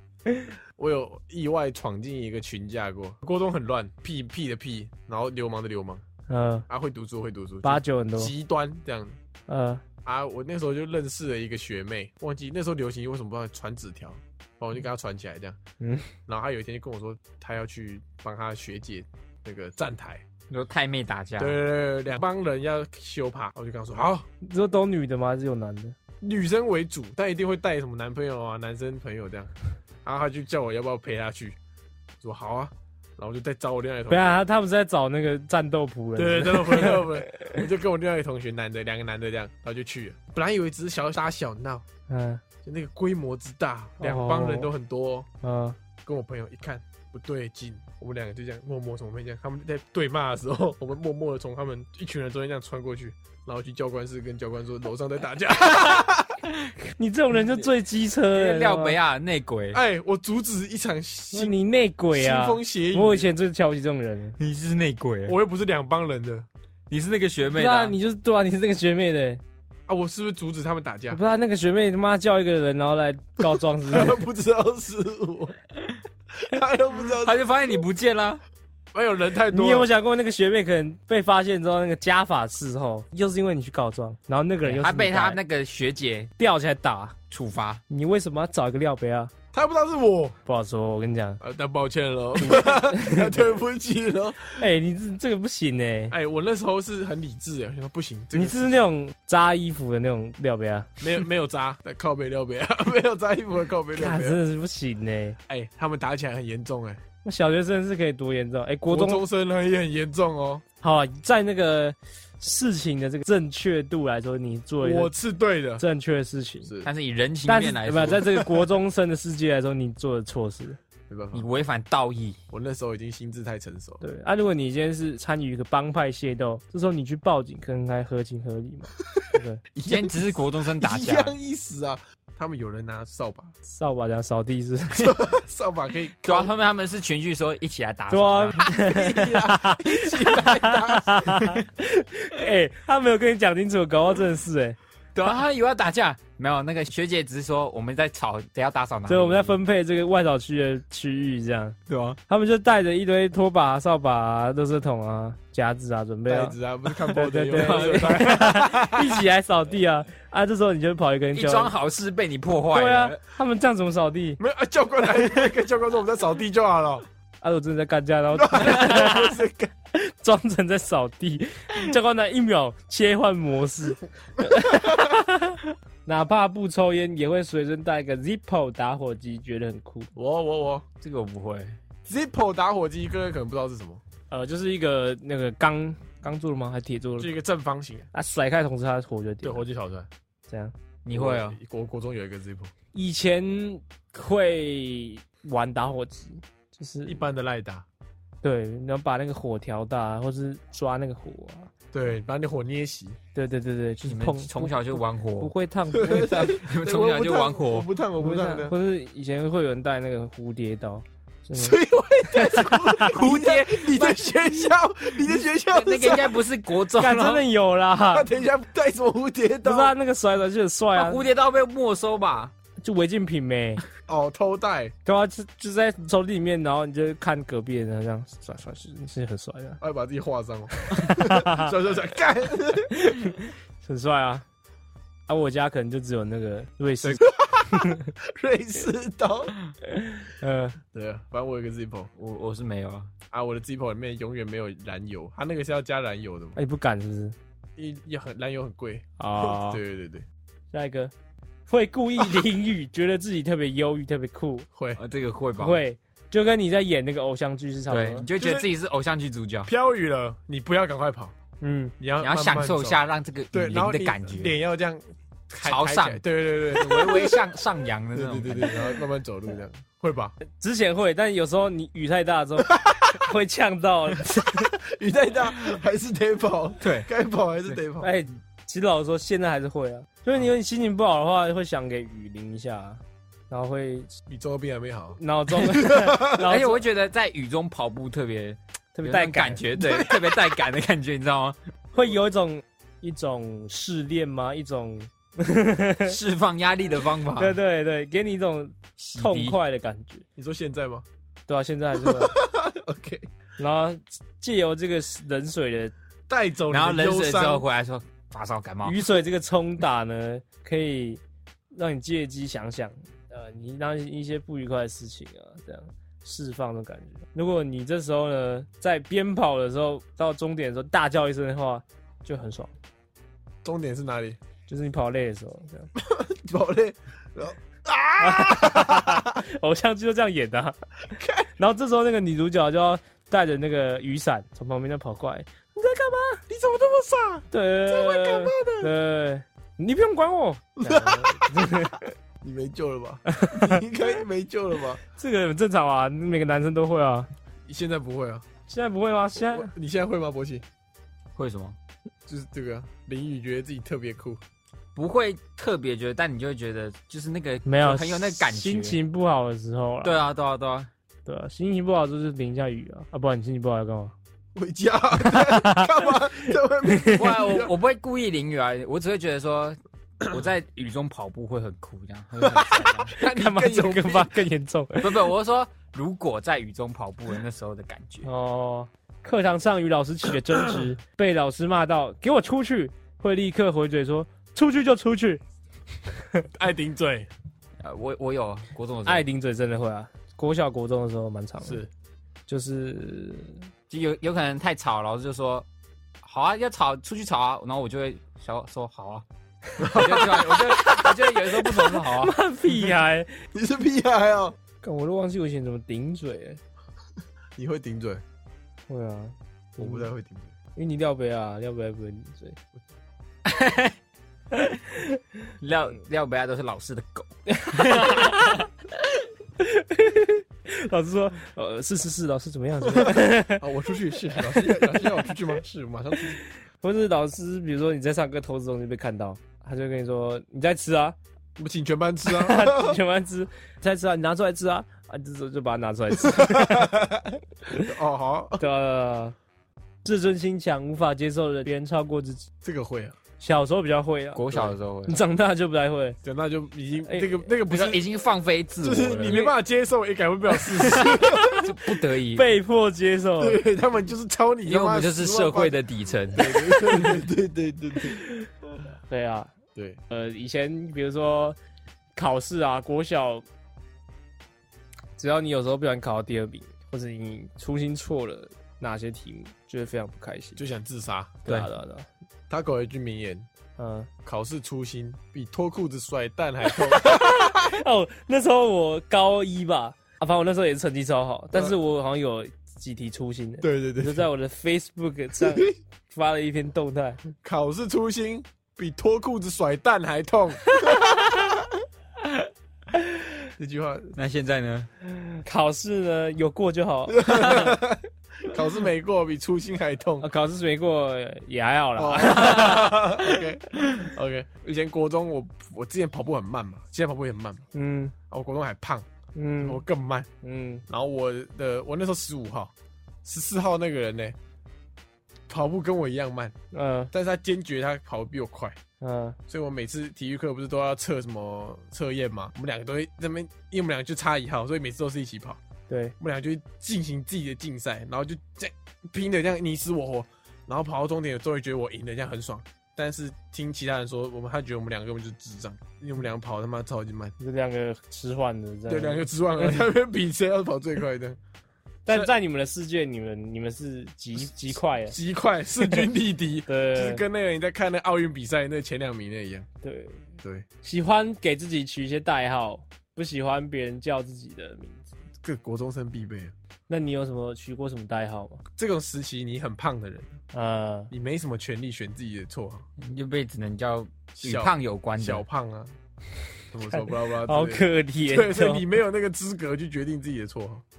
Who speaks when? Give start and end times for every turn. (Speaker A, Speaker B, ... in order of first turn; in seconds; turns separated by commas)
Speaker A: 0.2-0.5, Speaker B: 0.8-6.0, Speaker A: 6.3-6.7, Speaker B: 6.7-9.2, Speaker A: 7.6-8.3, Speaker A: 9.5-9.8, Speaker B: 10.0-15.6, Speaker A: 15.8-16.1, Speaker B: 16.3-20.2, Speaker C: 20.5-21.6, Speaker B: 21.4-24.2, Speaker A: 24.4-26.0, Speaker B: 26.2-29.5, Speaker B: 30.0-31.6, Speaker B: 32.2-34.4, Speaker A: 34.1-37.6, Speaker B: 36.1-41.8, Speaker A: 42.1-42.4, Speaker B: 42.6-45.3, Speaker A: 44.0-44.7, Speaker A: 45.4-45.8, Speaker B: 46.0-56.4, Speaker A: 57.0-59.0, Speaker C: 58.3-59.8, Speaker B: 59.7-61.5, Speaker A: 61.3-64.4, Speaker B: 62.1-63.3, Speaker C: 64.4-65.4, Speaker B: 65.3-66.5, Speaker C: 66.9-67.9, Speaker A: 67.5-69.4, Speaker B: 69.9-71.2, Speaker A: 71.1-74.2, Speaker B: 73.6-75.5, Speaker B: 76.3-77.4, Speaker C: 77.2-78.4, Speaker B: 78.9-79.9, Speaker A: 79.5-85.4, Speaker C: 84.6-86.3, Speaker A: 86.4-87.2, Speaker C: 87.3-87.8, Speaker A: 87.9-89.3, Speaker B: 89.5-90.3, Speaker A: 90.5-91.4, Speaker B: 91.4-94.6, Speaker A: 92.4-93.4, Speaker A: 94.5-96.1, Speaker B: 96.1-98.8, Speaker A: 98.3-101.0, Speaker B: 101.0-104.4, Speaker A: 104.0-105.4, Speaker B: 105.5-107.0, Speaker A: 107.2-109.2, Speaker B: 108.9-110.6, Speaker A: 110.8-115.1, Speaker B: 114.8-115.8, Speaker A: 115.8-116.7, Speaker B: 116.6-116.9, Speaker C: 116.8-118.5, Speaker A: 117.5-120.8, Speaker B: 121.1-121.5, Speaker C: 121.3-122.4, Speaker B: 122.5-124.0, Speaker A: 124.0-129.6, Speaker B: 129.7-133.5, Speaker C: 129.8-131.3, Speaker A: 133.7-135.2, Speaker B: 134.9-136.5, Speaker C: 136.2-138.6, Speaker A: 138.1-144.8, Speaker B: 138.6-141.6, Speaker C: 145.1-149.6, Speaker A: 149.1-151.8, Speaker C: 151.9-152.2, Speaker A: 152.3-156.6, Speaker B: 156.3-159.2, Speaker A: 157.1-161.7, Speaker C: 157.5-158.4, Speaker C: 161.3-163.2, Speaker A: 162.7-164.4, Speaker B: 164.4-167.1, Speaker A: 167.4-169.4, Speaker B: 168.3-169.7, Speaker A: 169.9-180.1, Speaker B: 174.5-175.1, Speaker B: 180.1-180.8, Speaker C: 181.0-181.8, Speaker B: 182.1-184.0, Speaker A: 184.3-187.3, Speaker B: 187.2-188.1, Speaker A: 188.1-189.6, Speaker B: 189.4-190.1, Speaker A: 190.5-190.7, Speaker C: 191.0-191.6, Speaker B: 191.1-192.7, Speaker A: 192.9-197.2, Speaker B: 197.1-197.8, Speaker A: 198.4-201.7, Speaker B: 201.9-203.2, Speaker A: 203.3-206.6, Speaker C: 204.0-205.5, Speaker B: 205.9-208.7, Speaker C: 206.1-207.9, Speaker A: 208.2-213.1, Speaker B: 211.5-216.4, Speaker C: 213.0-214.2, Speaker C: 215.7-217.4, Speaker A: 216.9-218.3, Speaker B: 218.1-219.9, Speaker A: 219.6-221.2, Speaker C: 220.9-222.5, Speaker A: 222.8-223.8, Speaker B: 224.1-224.9, Speaker A: 225.0-229.8, Speaker B: 229.8-233.1, Speaker A: 230.8-231.7, Speaker A: 232.9-234.4, Speaker A: 235.3-238.1, Speaker B: 237.0-239.5, Speaker A: 239.8-240.8, Speaker B: 240.9-242.1, Speaker C: 242.2-243.1, Speaker B: 243.3-246.6, Speaker A: 246.6-247.3, Speaker B: 247.8-250.2, Speaker A: 249.2-249.8, Speaker A: 250.7-251.1, Speaker A: 251.7-254.7, Speaker B: 254.7-255.0, Speaker C: 254.9-255.8, Speaker A: 255.6-258.2, Speaker C: 257.9-259.7, Speaker B: 258.4-258.7, Speaker B: 259.6-261.3, Speaker A: 261.6-261.9, Speaker B: 262.0-263.0, Speaker C: 262.2-264.5, Speaker B: 263.5-267.5, Speaker C: 265.6-269.0, Speaker B: 268.1-270.4, Speaker A: 270.6-274.7, Speaker B: 272.7-273.2, Speaker B: 274.5-278.1, Speaker C: 276.8-277.1, Speaker A: 278.0-284.1, Speaker B: 284.3-286.5, Speaker A: 285.2-286.8, Speaker C: 286.3-291.6, Speaker A: 288.9-289.6, Speaker B: 289.8-290.4, Speaker A: 291.9-296.2, Speaker C: 296.0-297.6, Speaker A: 297.4-300.2, Speaker C: 299.0-299.6, Speaker B: 300.4-301.0, Speaker A: 301.5-302.4, Speaker B: 302.0-303.3, Speaker A: 303.6-305.9, Speaker B: 306.3-307.6, Speaker C: 306.7-309.0, Speaker A: 308.8-311.2, Speaker A: 311.7-322.7, Speaker B: 323.6-324.4, Speaker A: 324.7-325.9, Speaker B: 325.9-329.4, Speaker A: 328.2-330.8, Speaker B: 331.1-331.5, Speaker A: 331.6-336.4, Speaker B: 336.5-338.9, Speaker A: 337.5-342.1, Speaker B: 340.8-345.0, Speaker A: 343.3-343.8, Speaker A: 345.1-347.3, Speaker B: 347.6-348.4, Speaker A: 348.7-349.7, Speaker B: 349.5-350.6, Speaker C: 351.4-351.8, Speaker B: 352.3-354.4, Speaker C: 354.9-359.0, Speaker A: 357.6-360.2, Speaker C: 360.0-360.9, Speaker A: 361.2-364.1, Speaker B: 364.5-367.7, Speaker A: 365.3-367.2, Speaker C: 367.1-373.1, Speaker B: 372.4-374.4, Speaker A: 373.2-375.2, Speaker C: 375.0-378.3, Speaker A: 378.2-385.4, Speaker B: 386.5-387.3, Speaker C: 387.8-389.2, Speaker A: 389.1-391.8, Speaker A: 392.5-393.6, Speaker C: 393.9-395.6, Speaker C: 396.2-399.2, Speaker B: 399.8-400.7, Speaker C: 399.8-402.3, Speaker A: 399.8-403.3, Speaker B: 403.5-404.6, Speaker A: 404.8-406.6, Speaker B: 407.6-408.2, Speaker A: 408.9-410.1, Speaker B: 409.8-410.5, Speaker A: 410.8-412.6, Speaker C: 413.4-413.9, Speaker A: 414.5-415.2, Speaker C: 415.6-418.6, Speaker A: 417.5-418.7, Speaker A: 419.6-423.6, Speaker B: 422.9-426.4, Speaker A: 424.3-425.1, Speaker A: 426.8-431.1, Speaker B: 431.6-433.0, Speaker A: 432.2-437.0, Speaker B: 436.2-438.6, Speaker A: 438.6-439.4, Speaker A: 440.0-442.5, Speaker B: 442.6-443.1, Speaker A: 443.4-446.2, Speaker C: 444.3-445.2, Speaker B: 446.2-448.0, Speaker A: 447.1-447.4, Speaker C: 447.7-449.4, Speaker B: 448.8-451.7, Speaker A: 449.2-449.5, Speaker C: 450.8-452.5, Speaker A: 452.3-453.6, Speaker B: 453.4-455.8, Speaker C: 454.6-456.9, Speaker B: 456.3-458.2, Speaker A: 459.1-459.5, Speaker B: 459.7-460.0, Speaker A: 460.1-461.6, Speaker A: 462.1-463.4, Speaker A: 465.2-470.6, Speaker B: 470.6-471.4, Speaker A: 471.4-472.1, Speaker B: 472.5-473.5, Speaker A: 473.8-474.1, Speaker B: 474.2-477.8, Speaker A: 476.7-487.2, Speaker B: 483.6-484.2, Speaker B: 485.4-485.7, Speaker B: 487.4-491.8, Speaker A: 490.8-491.2, Speaker B: 493.6-494.1, Speaker C: 494.1-494.9, Speaker A: 495.4-497.8, Speaker B: 497.1-500.2, Speaker A: 500.2-503.3, Speaker B: 502.0-507.6, Speaker A: 507.7-508.1, Speaker B: 508.3-509.1, Speaker A: 509.3-509.8, Speaker B: 509.6-510.3, Speaker A: 510.4-510.8, Speaker B: 510.9-512.7, Speaker B: 513.2-514.4, Speaker B: 515.5-516.5, Speaker A: 516.7-517.1, Speaker B: 517.1-518.8, Speaker A: 519.0-519.4, Speaker B: 519.5-525.6, Speaker A: 525.9-526.1, Speaker B: 526.2-537.3, Speaker A: 537.4-539.9, Speaker B: 538.9-541.4, Speaker A: 542.0-545.1, Speaker B: 545.1-549.7, Speaker A: 546.7-547.2, Speaker A: 549.8-550.3, Speaker A: 550.8-555.1, Speaker B: 555.4-556.5, Speaker A: 556.9-558.6, Speaker B: 558.8-560.4, Speaker A: 560.5-561.1, Speaker B: 561.1-562.8, Speaker C: 563.0-565.4, Speaker B: 564.4-565.9, Speaker B: 566.7-570.8, Speaker A: 566.9-568.8